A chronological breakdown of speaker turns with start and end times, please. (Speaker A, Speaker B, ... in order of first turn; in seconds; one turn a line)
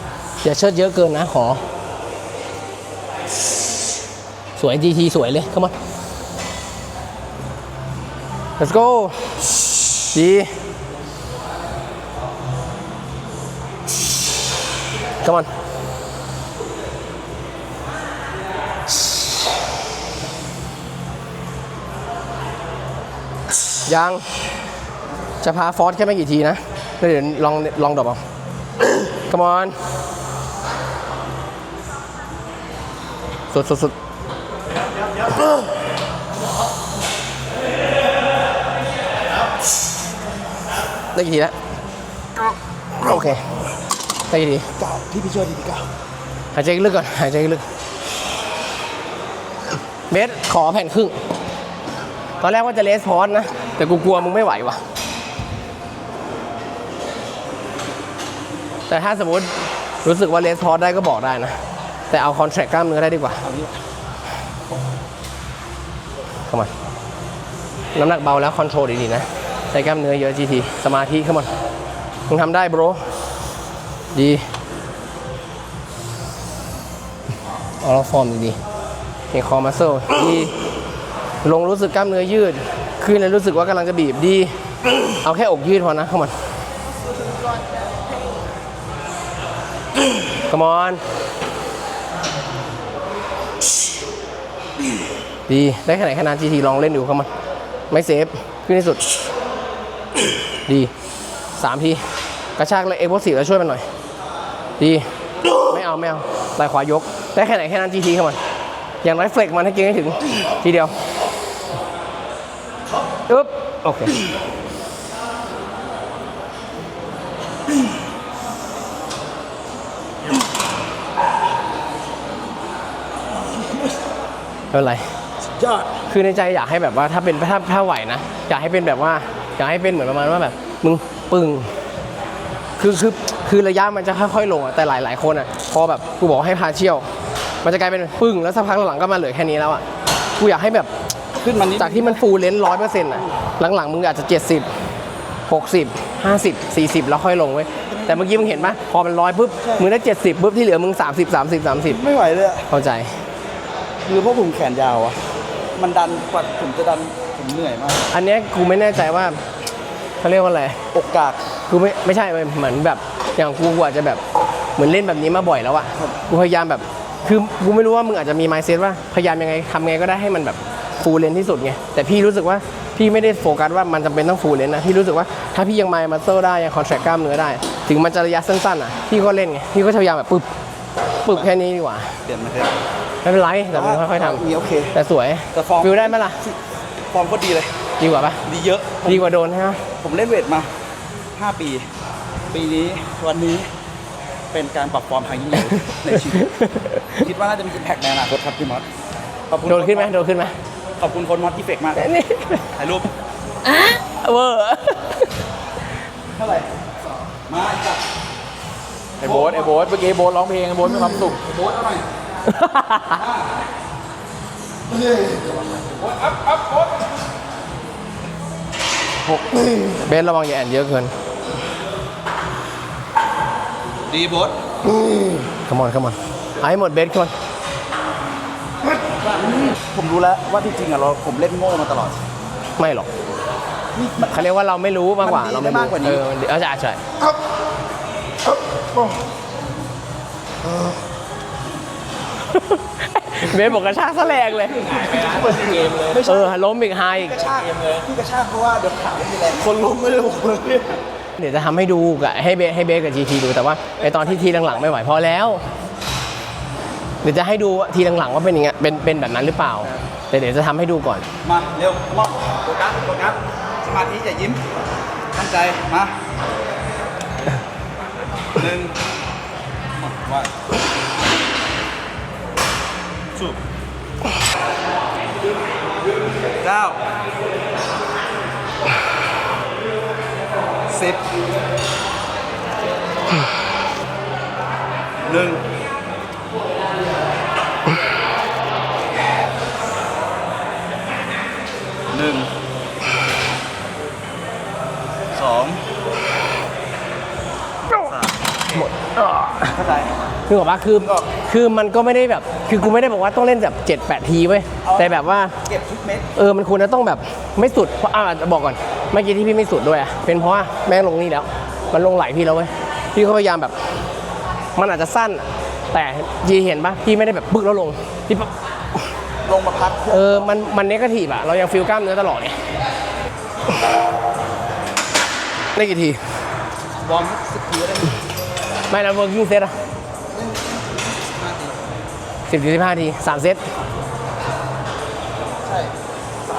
Speaker A: 0.4-1.6
Speaker A: 4.6-5.8
Speaker A: 8.6-9.2
Speaker A: 10.1-10.5
Speaker A: 15.2-15.5
Speaker A: 23.9-24.2
Speaker A: 25.4-28.2
Speaker A: 29.3-29.8
Speaker A: 33.5-34.0
Speaker A: 41.1-41.5
Speaker A: 43.0-43.4
Speaker A: 44.3-44.7
Speaker B: 44.8-45.9
Speaker A: 46.5-47.7
Speaker A: 50.1-51.1
Speaker A: 52.4-54.8
Speaker A: 58.9-61.6
Speaker A: 62.1-63.4
Speaker B: 63.4-63.7
Speaker A: 68.0-71.5
Speaker A: 72.3-73.0
Speaker A: 74.1-74.4
Speaker A: 77.8-78.6
Speaker A: 79.3-80.5
Speaker A: 81.4-84.5
Speaker A: 85.2-86.3
Speaker A: 90.5-91.0
Speaker A: 95.5-97.3
Speaker A: 97.9-99.1
Speaker A: 101.6-102.0
Speaker A: 102.6-103.8
Speaker A: 104.8-105.0
Speaker A: 105.7-108.4
Speaker A: 109.0-110.9
Speaker A: 113.3-114.2
Speaker A: 124.7-125.1
Speaker B: 125.6-125.9
Speaker A: 126.1-131.7
Speaker A: 132.8-137.1
Speaker A: 137.6-139.8
Speaker A: 140.4-140.9
Speaker B: 141.4-142.2
Speaker A: 141.8-144.7
Speaker A: 145.5-152.0
Speaker B: 147.8-148.8
Speaker B: 149.6-149.9
Speaker B: 151.8-152.7
Speaker A: 152.7-153.1
Speaker B: 154.0-155.2
Speaker B: 155.8-158.1
Speaker A: 158.1-159.4
Speaker A: 160.2-160.8
Speaker B: 160.9-161.4
Speaker A: 161.7-164.2
Speaker A: 164.8-180.5
Speaker A: 181.2-182.1
Speaker B: 182.2-182.8
Speaker A: 183.2-186.4
Speaker B: 183.7-184.9
Speaker B: 185.5-187.8
Speaker A: 188.0-188.4
Speaker B: 188.4-189.3
Speaker A: 189.0-189.8
Speaker B: 190.0-190.7
Speaker B: 191.4-191.9
Speaker B: 192.5-193.7
Speaker B: 194.5-196.5
Speaker A: 196.3-197.0
Speaker B: 197.1-198.9
Speaker B: 199.5-200.1
Speaker A: 199.7-200.5
Speaker B: 201.0-202.1
Speaker A: 202.0-202.7
Speaker B: 202.8-203.1
Speaker A: 203.7-205.3
Speaker B: 206.3-206.7
Speaker B: 207.4-208.0
Speaker C: 209.2-211.4
Speaker B: 209.2-209.7
Speaker B: 211.4-212.1
Speaker A: 212.5-213.2
Speaker B: 213.1-213.5
Speaker B: 215.1-216.6
Speaker B: 219.3-219.7
Speaker A: 220.0-221.1
Speaker B: 224.1-224.6
Speaker A: 225.7-227.3
Speaker B: 229.9-232.2
Speaker A: 232.8-233.1
Speaker B: 233.9-234.5
Speaker A: 234.3-237.0
Speaker B: 235.2-236.2
Speaker A: 242.5-245.0
Speaker C: 244.8-246.2
Speaker B: 246.0-246.6
Speaker A: 246.2-247.4
Speaker B: 247.1-251.0
Speaker C: 247.5-248.1
Speaker A: 251.4-255.6
Speaker B: 254.0-254.9
Speaker A: 257.2-261.2
Speaker B: 261.4-264.6
Speaker B: 265.3-266.1
Speaker B: 268.5-269.0
Speaker B: 270.0-270.5
Speaker B: 276.6-277.0
Speaker B: 280.9-281.2
Speaker B: 285.2-285.6
Speaker B: 292.1-292.5
Speaker B: 295.3-295.8
Speaker B: 298.0-298.3
Speaker A: 298.7-299.7
Speaker B: 299.7-300.1
Speaker A: 300.5-305.5
Speaker B: 301.0-301.3
Speaker B: 304.8-306.3
Speaker A: 306.4-313.8
Speaker A: 314.8-318.5
Speaker B: 319.4-320.7
Speaker A: 320.1-322.6
Speaker A: 325.8-326.2
Speaker B: 327.0-328.2
Speaker A: 328.9-329.8
Speaker B: 330.3-332.0
Speaker A: 332.5-333.6
Speaker B: 335.6-335.9